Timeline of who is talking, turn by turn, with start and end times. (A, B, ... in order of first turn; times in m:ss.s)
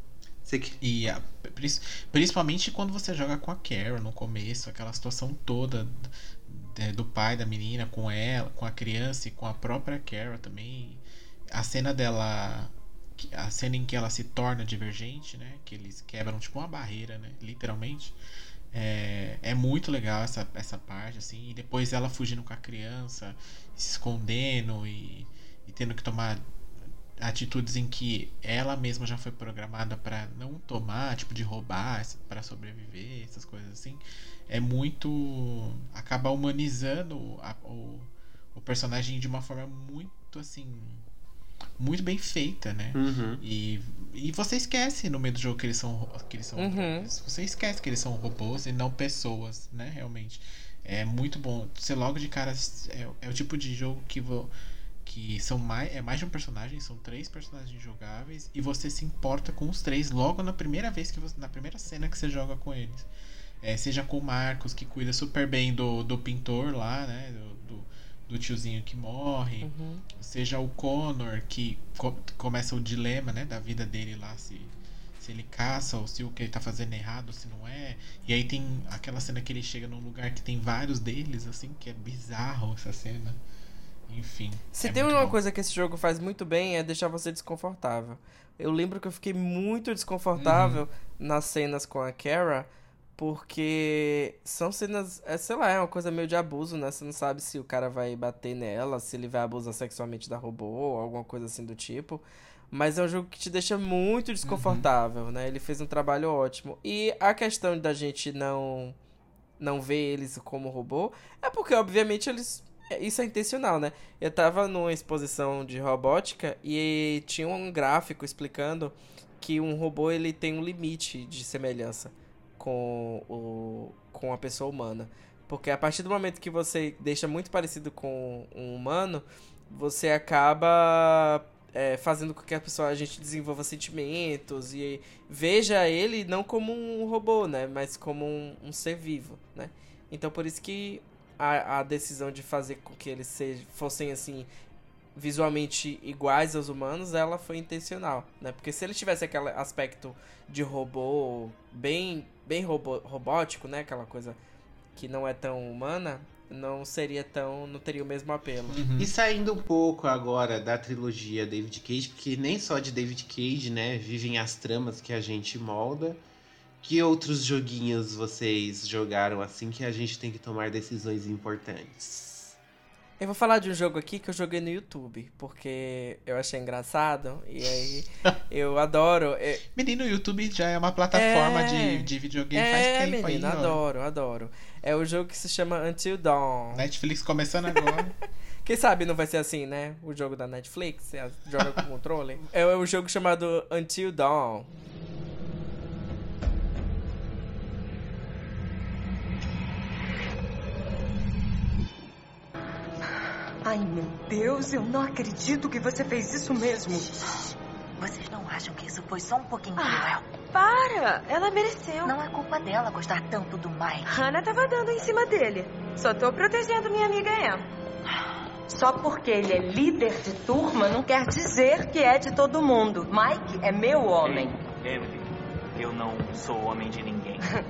0:00.4-0:00.8 A
0:00.8-0:18.2 B
0:18.7-0:26.4 B
0:27.2-0:41.0 B
0:41.8-0:54.5 B
0:42.9-0:43.4 A
0:46.6-0:47.1 C
0:55.0-1:03.1 B
1:03.6-1:23.4 B
1:09.6-1:10.0 C
1:24.1-1:25.4 B
1:24.7-1:49.0 C
1:30.4-1:30.8 B
1:44.4-1:44.8 B
1:49.6-2:24.5 C
2:25.2-2:34.4 C
2:34.9-2:38.8 C
2:38.7-2:39.1 B
2:39.0-2:46.2 A
2:46.8-2:52.6 A
2:53.2-2:59.6 C
2:59.7-3:03.8 B
3:01.1-3:06.8 C
3:06.7-3:08.1 B
3:08.6-3:14.7 C
3:23.6-3:27.1 D
3:28.0-3:30.3 E
3:29.8-3:32.2 D
3:32.0-3:34.2 E
3:34.0-3:37.7 D
3:38.7-3:44.6 D
3:44.2-3:47.4 F